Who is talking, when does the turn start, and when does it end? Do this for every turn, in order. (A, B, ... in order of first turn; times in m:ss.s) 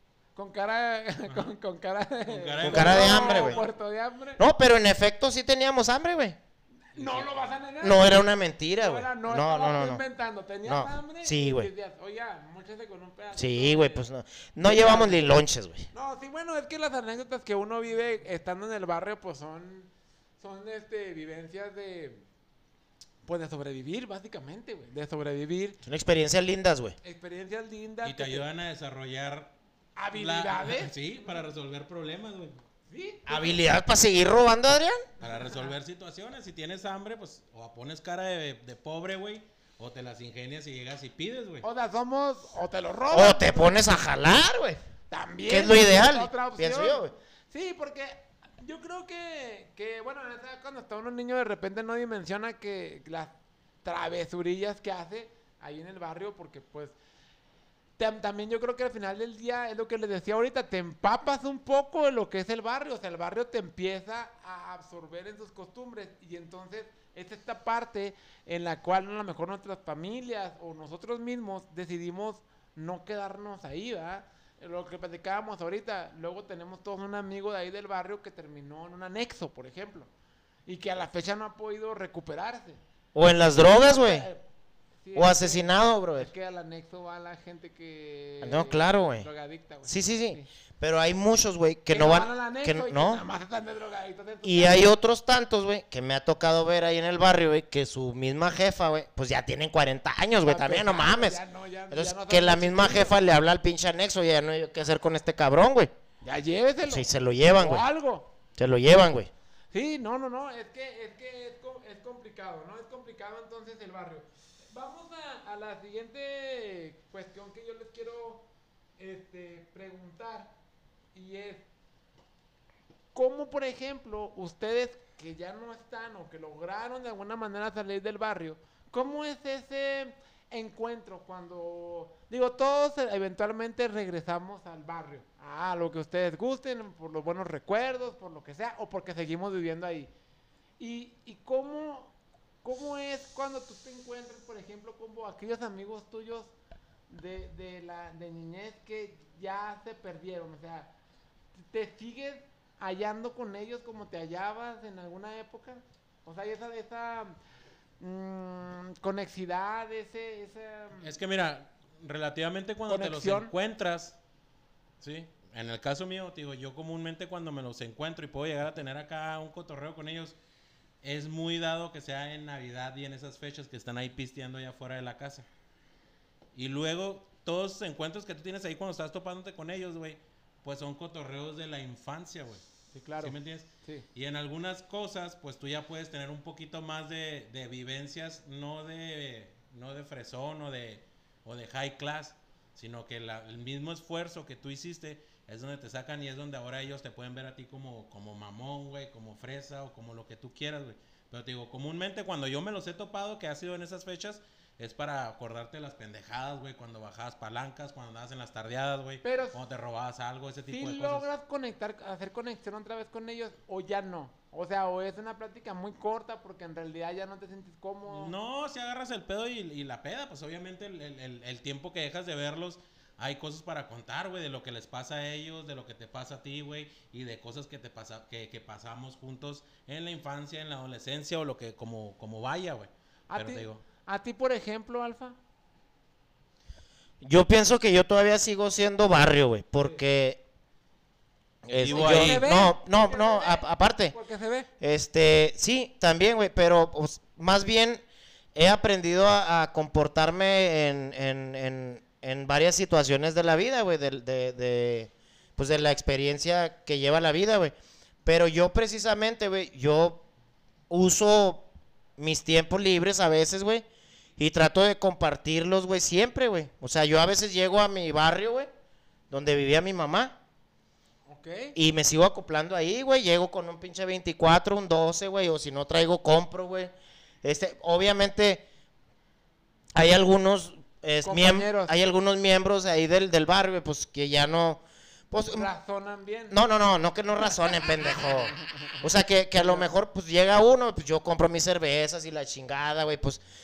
0:00.4-0:04.4 A
0:02.3-0:03.6 B
0:02.6-0:03.6 C
0:04.4-0:06.4 C
0:06.9-0:08.3 A
0:07.0-0:07.3 B
0:07.8-0:10.0 C
0:08.8-0:14.1 A
0:10.6-0:11.7 C
0:13.3-0:15.9 C
0:14.6-0:22.2 A
0:23.2-0:25.8 A
0:25.8-0:27.0 C
0:27.0-0:28.4 A
0:28.0-0:29.5 B
0:30.0-0:31.2 A
0:30.1-0:32.6 B
0:32.9-0:33.6 A
0:33.3-0:35.0 C
0:35.2-0:35.8 A
0:35.2-0:41.6 B
0:41.6-0:43.8 A
0:43.1-0:44.8 C
0:45.1-0:57.0 A
0:45.5-0:47.1 C
0:58.0-1:20.1 A
1:20.6-1:22.8 A
1:23.1-1:24.3 C
1:23.6-1:24.4 A
1:25.0-1:30.5 A
1:25.1-1:26.3 C
1:28.4-1:29.3 C
1:29.8-1:33.2 C
1:31.9-1:34.9 A
1:34.4-1:45.9 C
1:40.4-1:43.2 A
1:46.2-1:48.3 A
1:46.8-1:47.8 C
1:48.5-1:49.3 C
1:49.7-1:58.5 A
1:59.0-2:00.5 A
2:01.1-2:01.6 A
2:03.1-2:20.1 A
2:20.8-2:26.5 A
2:27.1-2:30.9 A
2:31.6-2:37.4 A
2:38.0-2:41.1 A
2:41.0-2:44.2 B
2:42.9-2:43.5 A
2:45.0-2:50.4 B
2:51.0-2:55.4 B
2:56.5-3:02.6 B
3:02.9-3:04.0 A
3:03.2-3:31.3 B
3:29.2-3:29.6 A
3:30.7-3:38.3 A
3:38.1-3:53.8 B
3:53.3-3:55.4 A
3:57.2-4:00.4 C
4:01.6-4:04.1 C
4:01.8-4:02.4 B
4:01.9-4:04.7 A
4:04.8-4:08.0 C
4:08.5-4:17.7 C
4:18.2-4:20.2 C
4:20.9-4:23.8 C
4:24.4-4:28.7 C
4:29.3-4:30.3 C
4:31.2-4:31.7 A
4:31.7-4:36.9 C
4:37.4-4:38.6 C
4:39.9-4:45.7 C
4:41.2-4:42.0 A
4:45.4-4:46.5 A
4:46.5-4:53.4 C
4:47.6-4:48.8 A
4:49.5-4:49.9 A